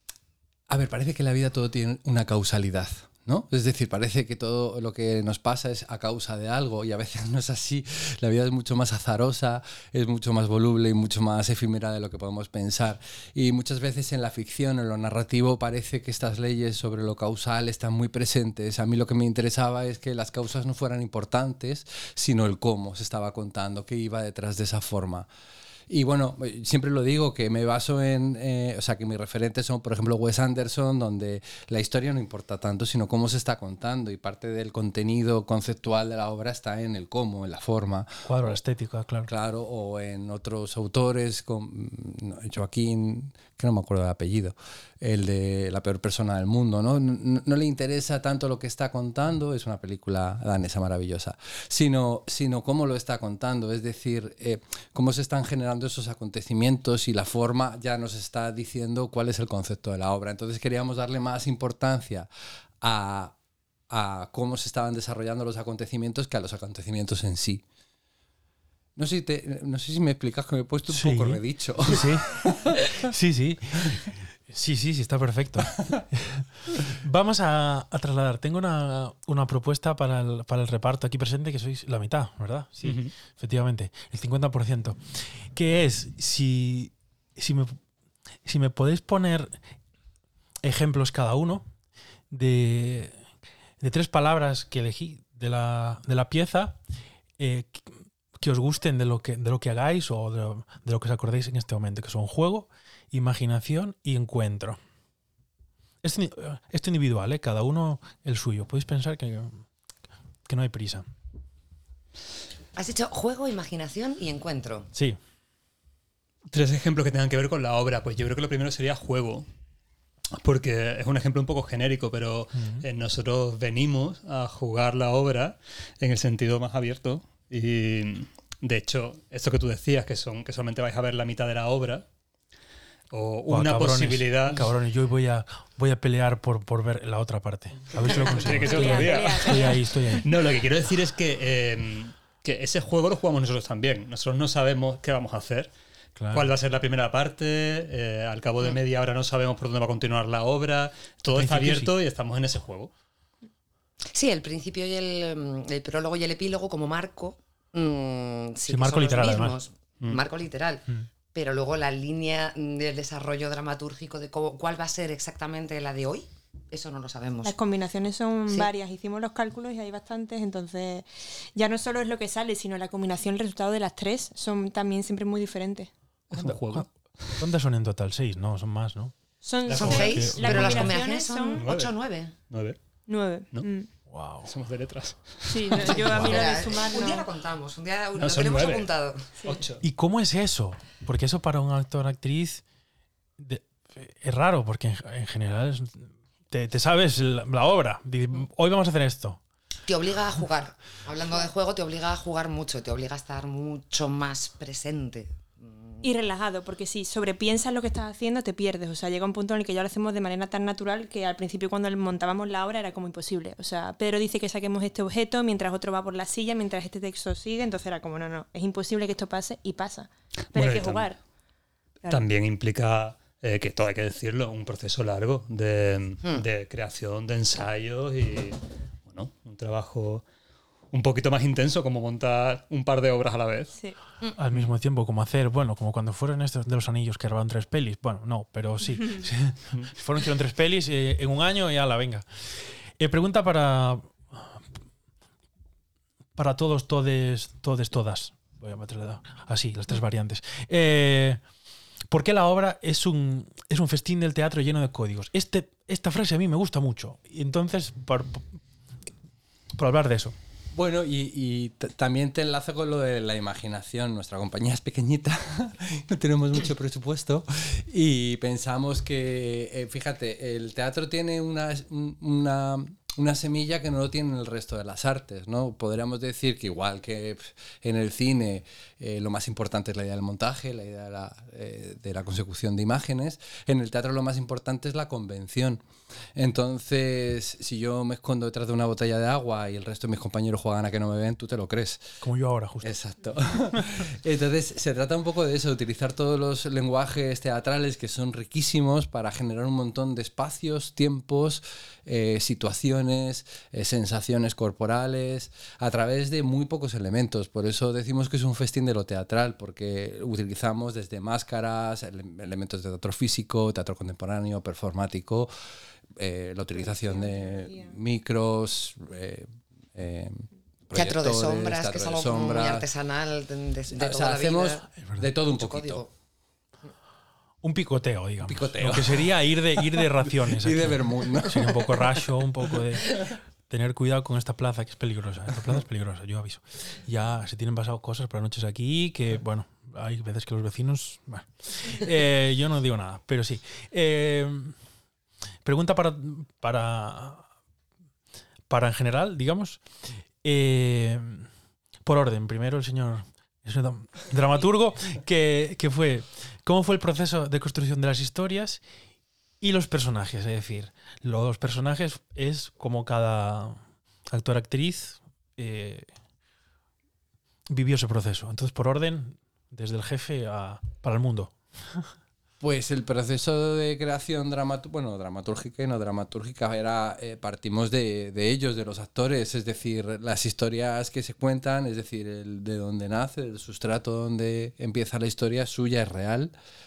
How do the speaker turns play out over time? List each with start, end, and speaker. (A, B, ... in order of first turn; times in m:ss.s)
0:00.7-0:25.3 A
0:25.9-0:38.6 A
0:38.2-0:39.3 B
0:39.3-1:02.3 A
1:02.8-1:03.4 A
1:03.9-1:07.6 A
1:09.0-1:12.8 A
1:10.9-1:12.3 B
1:13.0-1:27.8 B
1:22.8-1:23.1 C
1:28.4-1:29.6 B
1:30.6-1:31.7 B
1:32.3-1:33.2 B
1:33.8-1:36.8 B
1:37.4-1:44.8 B
1:46.0-1:49.6 B
1:50.5-1:51.1 B
1:52.7-1:54.9 D
1:56.5-1:59.5 C
2:00.4-2:12.1 C
2:02.6-2:02.8 B
2:13.1-2:14.7 C
2:13.5-2:20.3 B
2:18.0-2:19.6 C
2:18.7-2:20.2 E
2:20.2-2:25.7 C
2:26.2-2:26.5 B
2:26.3-2:32.9 C
2:31.3-2:31.9 B
2:34.1-2:47.6 D
2:38.7-2:39.6 B
2:47.4-2:55.9 E
2:56.3-2:57.4 C
2:56.3-2:56.9 B
2:57.4-2:59.1 B
2:59.4-3:01.6 E
2:59.7-3:00.1 C
2:59.7-3:00.9 B
2:59.8-3:02.3 D
3:01.6-3:02.0 C
3:02.5-3:02.8 C
3:03.1-3:03.9 E
3:04.1-3:04.5 B
3:04.4-3:06.0 C
3:05.5-3:07.2 E
3:05.8-3:09.3 D
3:06.1-3:06.5 B
3:08.2-3:08.9 C
3:09.4-3:09.8 C
3:09.8-3:12.6 B
3:13.4-3:19.4 B
3:19.9-3:26.0 D
3:26.0-3:41.2 E
3:40.5-3:41.1 C
3:42.1-3:50.2 C
3:50.9-3:53.8 C
3:54.4-4:02.3 B
4:03.0-4:04.6 B
4:06.4-4:11.4 B
4:12.1-4:18.4 B
4:19.8-4:20.4 B
4:20.7-4:45.8 A
4:46.4-4:52.2 A
4:52.2-4:52.9 B
4:52.8-5:15.5 A
5:16.2-5:22.9 A
5:16.9-5:17.9 E
5:20.9-5:24.9 D
5:23.9-5:26.0 A
5:25.0-5:25.3 B
5:25.4-5:26.1 D
5:27.6-5:44.8 B
5:28.4-5:32.3 A
5:45.6-5:47.5 B
5:48.7-5:49.9 B
5:50.4-5:51.5 B
5:52.0-5:58.8 B
5:59.6-6:06.1 B
6:07.7-6:12.1 B
6:12.6-6:26.5 A